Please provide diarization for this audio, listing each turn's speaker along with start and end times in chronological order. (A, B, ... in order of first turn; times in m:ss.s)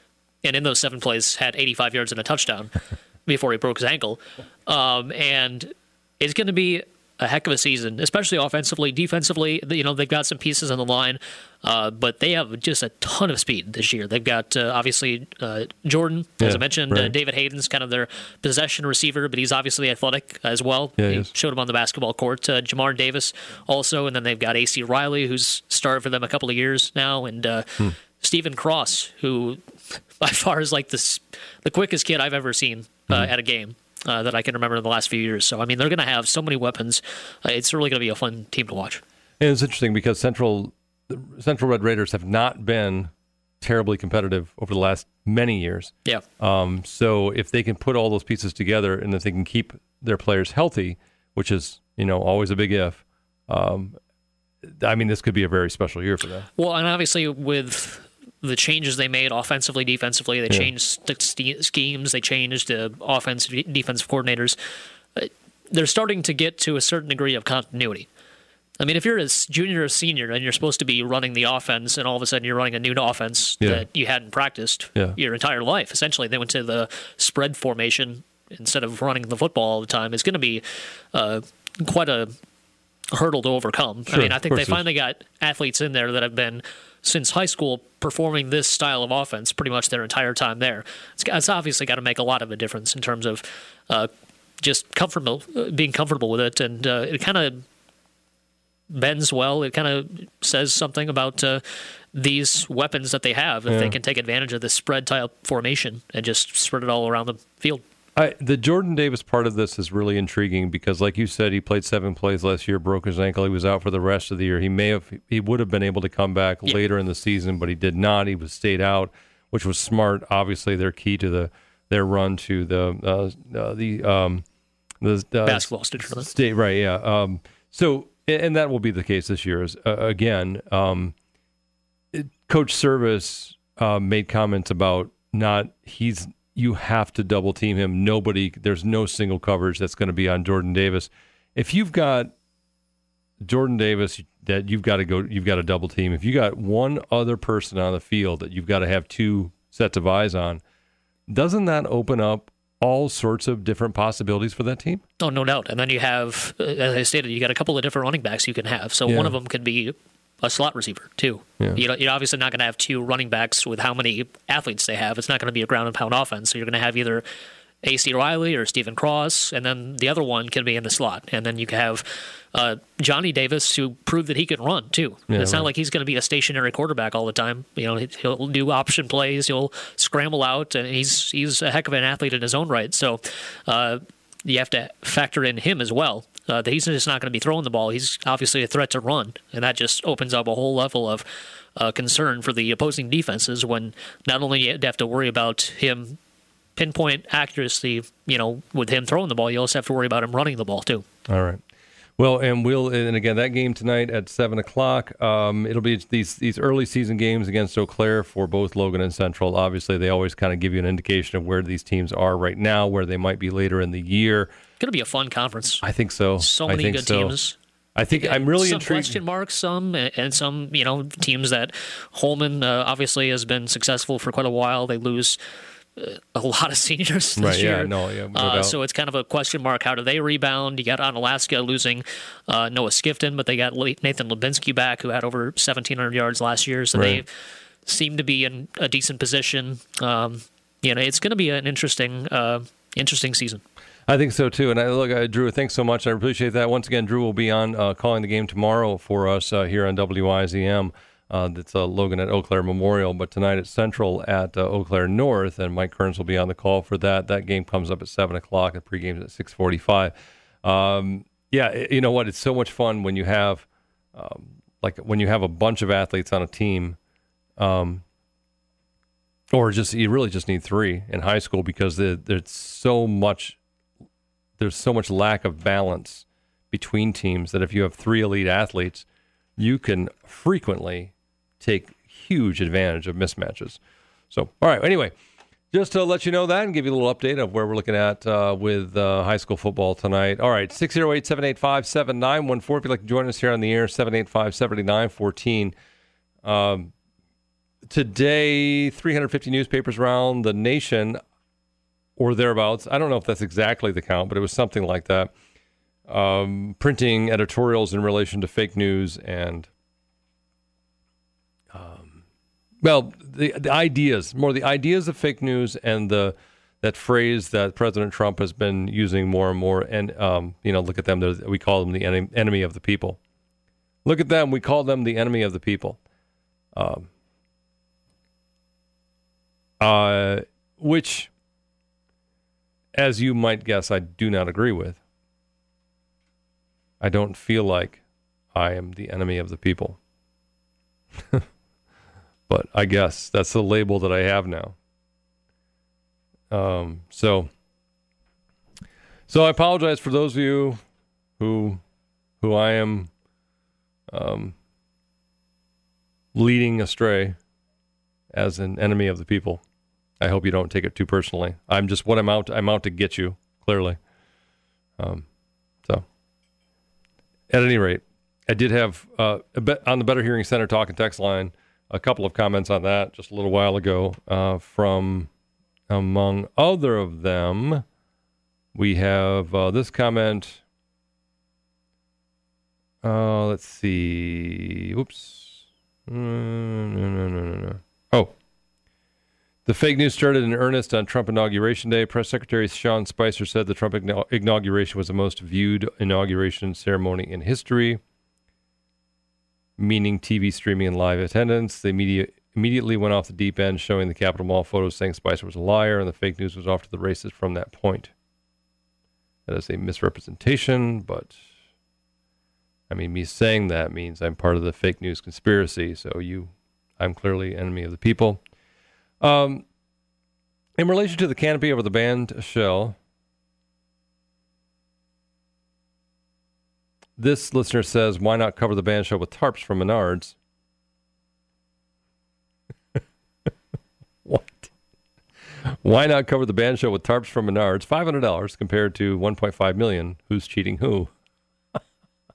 0:00.4-0:39.0 A
0:16.4-0:17.1 B
0:21.0-0:21.3 B
0:39.4-0:54.0 B
0:54.6-0:56.5 B
0:56.6-1:04.6 A
1:05.2-1:08.1 A
1:08.8-1:22.3 A
1:13.6-1:13.8 B
1:23.1-1:37.6 A
1:24.1-1:24.8 B
1:38.9-1:41.6 A
1:42.1-1:47.8 A
1:43.7-1:44.0 B
1:48.1-2:04.4 B
2:05.0-2:11.1 B
2:05.4-2:06.3 A
2:12.1-2:22.3 B
2:23.4-2:30.6 B
2:31.3-2:35.0 B
2:35.2-2:47.2 A
2:39.1-2:39.4 B
2:47.8-3:16.2 A
2:55.3-2:55.7 B
3:16.8-3:21.0 A
3:21.3-3:21.6 B
3:22.2-3:34.5 B
3:34.8-3:35.8 A
3:35.8-3:37.3 B
3:36.4-3:37.6 A
3:38.0-3:39.2 B
3:38.1-3:45.4 A
3:46.0-3:57.3 A
3:47.4-3:48.8 B
3:56.9-3:57.2 B
3:57.9-4:03.6 A
4:04.1-4:27.0 B
4:27.6-4:28.0 B
4:29.5-4:33.6 B
4:34.6-4:39.1 B
4:39.6-4:43.8 B
4:44.3-4:45.1 B
4:45.7-4:55.7 B
4:56.4-4:56.9 B
4:57.9-5:01.2 B
5:02.2-5:05.3 B
5:06.1-5:09.7 B
5:11.7-5:12.2 B
5:12.8-5:23.2 B
5:24.0-5:26.0 B
5:26.7-5:27.1 B
5:29.8-5:31.3 B
5:32.9-5:35.0 B
5:37.0-5:38.0 B
5:38.6-5:40.0 B
5:41.2-5:41.4 B
5:42.5-5:44.8 B
5:46.5-5:47.5 B
5:49.3-5:50.8 B
5:51.4-5:51.8 B
5:52.4-5:53.1 B
5:54.1-5:54.6 B
5:56.4-5:57.4 B
5:58.3-5:59.6 B
6:00.2-6:04.0 B
6:05.0-6:05.3 B
6:07.5-6:15.3 B
6:15.9-6:17.8 B
6:18.7-6:20.6 B
6:23.0-6:28.3 B
6:29.6-6:38.0 B
6:39.8-6:48.1 B
6:49.5-6:51.4 B
6:52.9-6:58.4 B
6:59.2-6:59.6 B
7:00.8-7:03.0 B
7:07.2-7:10.4 B
7:14.2-7:14.7 B
7:15.7-7:21.1 B